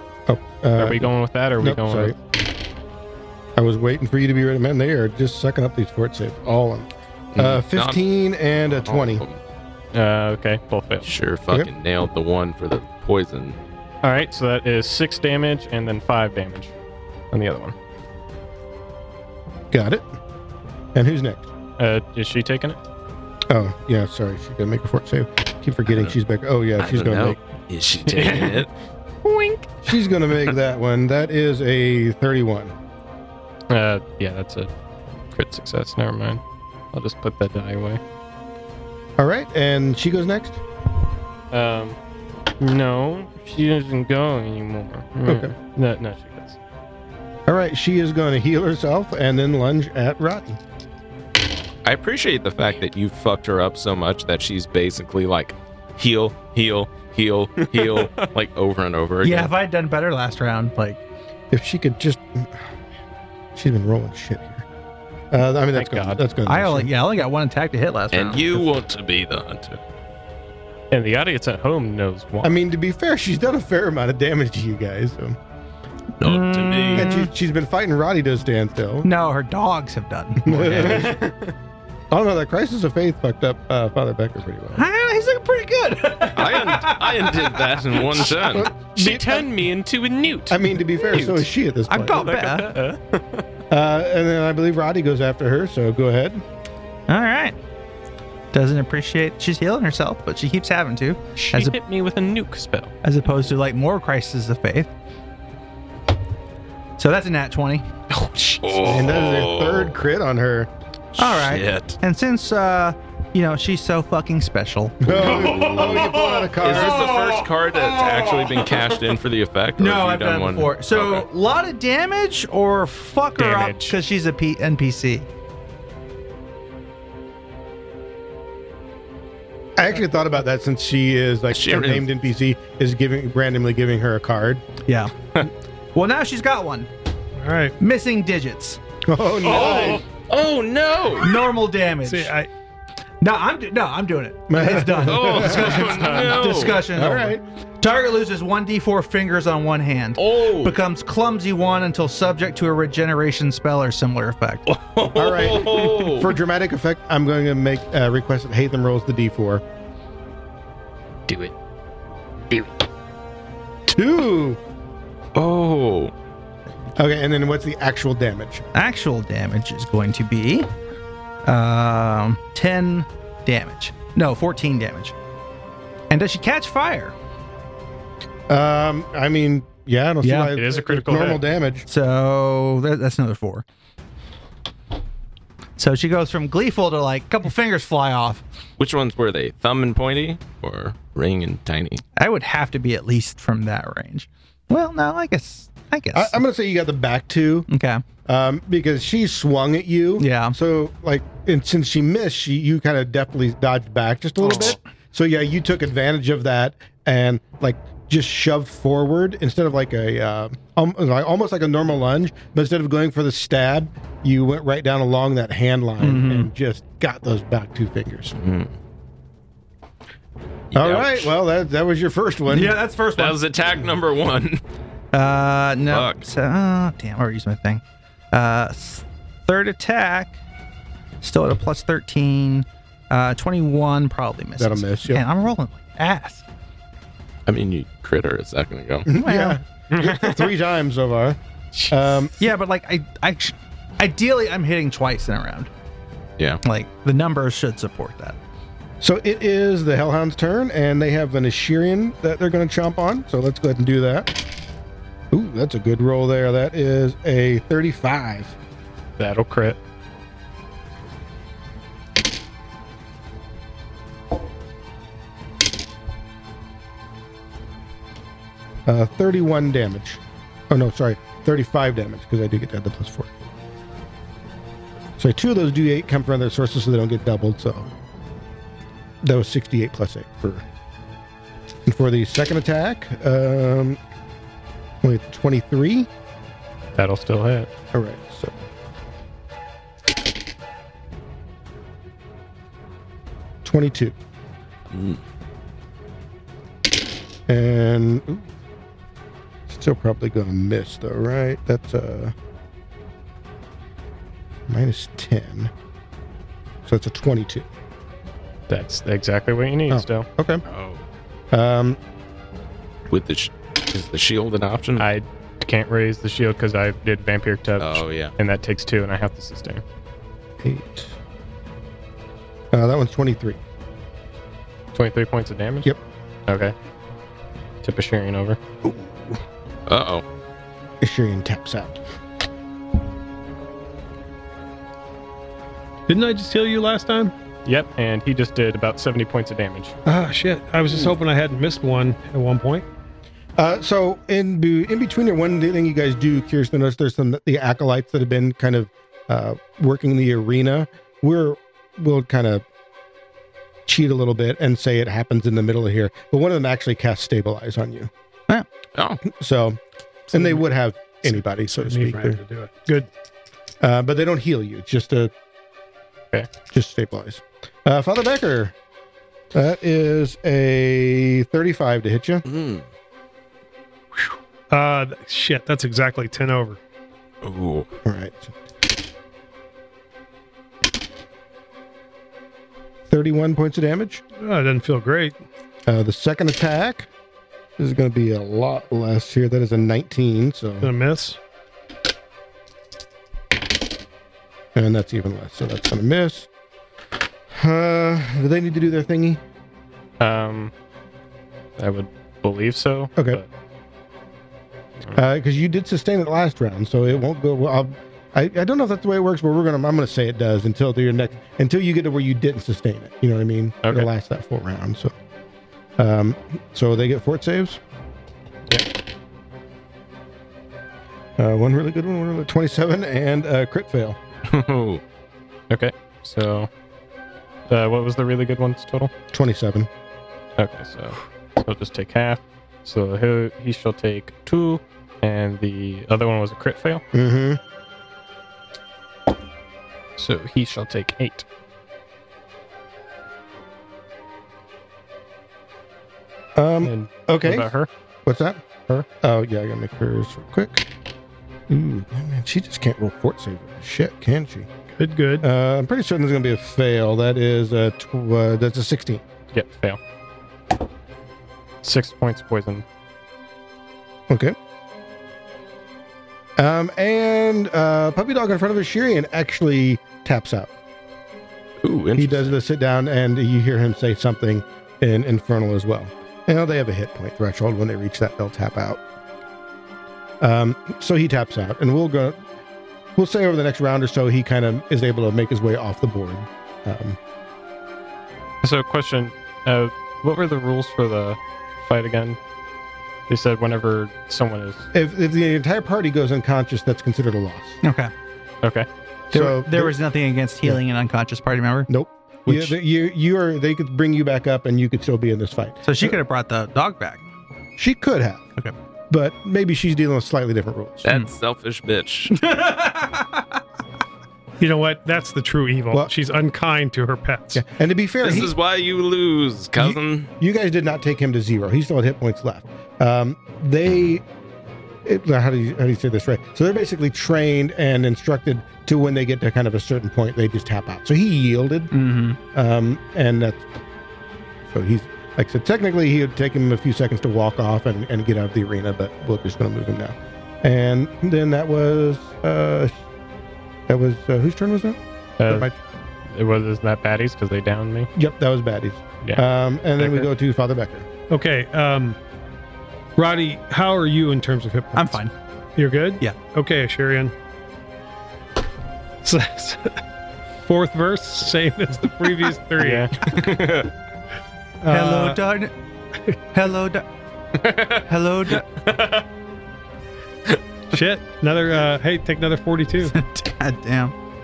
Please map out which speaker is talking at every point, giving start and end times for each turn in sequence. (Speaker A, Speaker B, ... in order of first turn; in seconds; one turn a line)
Speaker A: 0.3-2.2
Speaker B: 0.8-2.1
Speaker A: 3.6-9.2
Speaker C: 7.3-8.0
Speaker C: 8.6-9.4
Speaker B: 9.9-11.1
Speaker C: 11.1-13.6
Speaker B: 14.0-16.7
Speaker B: 17.3-17.8
Speaker A: 19.7-20.1
Speaker A: 20.9-21.5
Speaker B: 21.8-22.8
Speaker A: 23.5-27.4
Speaker C: 25.9-26.1
Speaker C: 26.8-28.7
Speaker B: 28.1-28.7
Speaker B: 29.2-29.8
Speaker A: 29.9-32.7
Speaker B: 33.7-34.7
Speaker B: 35.3-36.4
Speaker B: 36.9-38.0
Speaker A: 39.2-40.6
Speaker B: 41.5-42.0
Speaker B: 42.6-46.6
Speaker A: 45.3-45.5
Speaker A: 47.5-50.6
Speaker C: 51.8-59.5
Speaker B: 57.7-58.3
Speaker D: 59.2-61.0
Speaker A: 61.5-62.7
Speaker A: 63.5-64.7
Speaker A: 65.3-66.9
Speaker B: 65.7-66.2
Speaker D: 66.5-68.7
Speaker C: 68.1-69.8
Speaker B: 70.9-72.6
Speaker A: 72.4-75.4
Speaker C: 76.2-77.1
Speaker D: 76.2-77.3
Speaker A: 77.0-79.1
Speaker D: 79.0-81.2
Speaker A: 80.4-81.2
Speaker B: 80.8-81.5
Speaker A: 82.1-84.9
Speaker D: 84.7-88.3
Speaker C: 86.3-88.7
Speaker A: 88.3-89.5
Speaker B: 89.0-91.5
Speaker A: 90.5-92.3
Speaker D: 91.9-92.7
Speaker B: 92.1-93.5
Speaker A: 93.7-96.4
Speaker D: 97.1-97.6
Speaker D: 98.5-101.8
Speaker B: 101.4-102.9
Speaker D: 103.0-104.9
Speaker D: 107.0-107.9
Speaker B: 108.1-108.9
Speaker C: 108.6-110.0
Speaker A: 108.9-110.7
Speaker C: 111.1-112.0
Speaker D: 111.2-115.4
Speaker A: 115.0-117.2
Speaker C: 115.2-121.3
Speaker B: 115.2-117.4
Speaker D: 116.8-118.1
Speaker D: 119.8-125.3
Speaker B: 123.4-124.0
Speaker A: 129.8-134.7
Speaker C: 131.5-132.1
Speaker D: 134.9-135.1
Speaker D: 135.9-136.9
Speaker E: 137.4-137.8
Speaker D: 137.8-138.8
Speaker A: 139.0-140.0
Speaker C: 139.4-141.4
Speaker B: 139.5-139.8
Speaker D: 141.2-142.3
Speaker E: 142.0-142.5
Speaker D: 143.2-154.6
Speaker A: 144.5-146.2
Speaker C: 145.0-146.9
Speaker A: 146.9-147.4
Speaker C: 150.2-150.8
Speaker C: 154.7-156.3
Speaker A: 155.1-159.6
Speaker B: 161.3-161.5
Speaker A: 163.9-164.6
Speaker C: 165.3-166.1
Speaker A: 167.0-168.7
Speaker D: 168.7-170.7
Speaker D: 171.4-175.1
Speaker D: 176.1-177.2
Speaker A: 178.5-181.9
Speaker D: 180.2-180.5
Speaker B: 180.6-181.4
Speaker D: 181.9-183.6
Speaker D: 185.8-188.4
Speaker C: 188.8-192.0
Speaker D: 192.2-196.4
Speaker A: 196.1-197.7
Speaker D: 197.7-198.0
Speaker A: 198.3-218.3
Speaker D: 200.2-200.6
Speaker D: 216.0-216.5
Speaker C: 218.3-218.7
Speaker C: 220.7-221.3
Speaker A: 220.7-222.8
Speaker D: 222.5-223.6
Speaker C: 223.2-224.6
Speaker D: 225.1-230.4
Speaker C: 225.9-226.3
Speaker D: 231.2-236.4
Speaker A: 234.6-235.2
Speaker C: 237.5-239.1
Speaker A: 239.1-241.4
Speaker D: 239.1-239.6
Speaker B: 239.9-240.5
Speaker B: 241.7-242.2
Speaker A: 241.9-242.3
Speaker D: 242.4-245.7
Speaker D: 246.6-248.4
Speaker A: 249.0-254.3
Speaker A: 255.3-258.6
Speaker B: 259.2-259.8
Speaker A: 268.9-273.3
Speaker A: 275.2-277.9
Speaker A: 279.2-280.6
Speaker A: 281.9-284.0
Speaker A: 285.0-286.1
Speaker B: 287.0-287.7
Speaker A: 287.9-288.6
Speaker A: 293.6-294.1
Speaker C: 294.9-295.2
Speaker A: 297.5-298.5
Speaker A: 299.7-302.3
Speaker A: 304.7-305.7
Speaker A: 306.9-307.7
Speaker B: 308.7-310.3
Speaker A: 309.9-310.6
Speaker C: 310.7-311.0
Speaker A: 311.5-312.0
Speaker C: 313.1-315.1
Speaker B: 315.0-319.8
Speaker C: 317.8-318.3
Speaker A: 320.6-321.1
Speaker A: 322.7-323.6
Speaker B: 324.9-325.9
Speaker B: 326.5-326.7
Speaker B: 327.8-328.6
Speaker A: 328.8-329.4
Speaker C: 329.9-330.2
Speaker A: 331.0-332.0
Speaker E: 336.1-337.3
Speaker B: 337.6-340.0
Speaker E: 340.1-342.9
Speaker A: 340.9-341.1
Speaker A: 343.6-352.6
Speaker A: 353.9-358.1
Speaker C: 359.0-359.2
Speaker A: 359.2-359.8
Speaker E: 360.3-360.6
Speaker A: 360.3-362.4
Speaker E: 361.2-363.1
Speaker A: 363.8-365.3
Speaker A: 366.7-368.7
Speaker A: 369.5-372.4
Speaker C: 372.5-372.9
Speaker E: 374.7-376.8
Speaker C: 377.4-377.9
Speaker A: 378.1-378.5
Speaker A: 383.1-384.2
Speaker E: 384.4-385.4
Speaker A: 385.9-387.1
Speaker A: 387.8-390.9
Speaker E: 390.8-391.4
Speaker A: 394.8-396.5
Speaker A: 397.5-399.4
Speaker B: 400.2-400.7
Speaker B: 401.8-403.5
Speaker A: 403.2-403.4
Speaker A: 405.1-415.1
Speaker B: 413.8-414.1
Speaker A: 416.0-417.8
Speaker A: 421.4-424.2
Speaker C: 424.5-425.0
Speaker B: 425.7-426.7
Speaker B: 427.7-429.1
Speaker A: 429.3-429.9
Speaker B: 430.6-437.0
Speaker A: 437.1-437.6
Speaker B: 440.2-441.4
Speaker A: 446.6-447.7
Speaker B: 446.8-447.9
Speaker A: 448.3-450.9
Speaker A: 451.7-454.7
Speaker E: 455.0-455.4
Speaker A: 455.4-459.2
Speaker B: 459.5-460.0
Speaker B: 461.8-462.9
Speaker A: 464.3-464.6
Speaker A: 466.6-470.7
Speaker C: 471.8-472.6
Speaker A: 472.2-479.0
Speaker A: 480.4-482.4
Speaker A: 483.2-487.2
Speaker B: 488.6-492.4
Speaker B: 493.3-494.9
Speaker A: 494.9-497.8
Speaker D: 497.8-498.1
Speaker A: 499.3-500.0
Speaker D: 499.3-501.9
Speaker A: 501.9-506.2
Speaker D: 502.5-502.8
Speaker D: 505.9-507.2
Speaker A: 507.8-508.5
Speaker A: 509.1-511.1
Speaker C: 511.0-512.5
Speaker D: 512.3-513.5
Speaker E: 514.6-517.6
Speaker A: 517.5-518.5
Speaker C: 518.2-520.3
Speaker A: 519.8-524.2
Speaker A: 525.0-531.9
Speaker D: 531.9-532.4
Speaker A: 532.5-533.6
Speaker A: 534.7-542.9
Speaker A: 543.9-545.8
Speaker B: 545.4-545.7
Speaker B: 546.3-548.1
Speaker A: 548.1-551.1
Speaker E: 551.3-552.2
Speaker E: 553.2-555.2
Speaker D: 555.0-555.3
Speaker E: 555.8-557.3
Speaker E: 559.2-560.0
Speaker E: 560.6-563.6
Speaker B: 562.8-563.4
Speaker C: 563.3-563.8
Speaker E: 564.8-565.4
Speaker D: 564.9-565.7
Speaker D: 566.5-567.0
Speaker C: 567.6-568.0
Speaker D: 568.0-568.7
Speaker E: 570.9-573.1
Speaker D: 573.1-574.1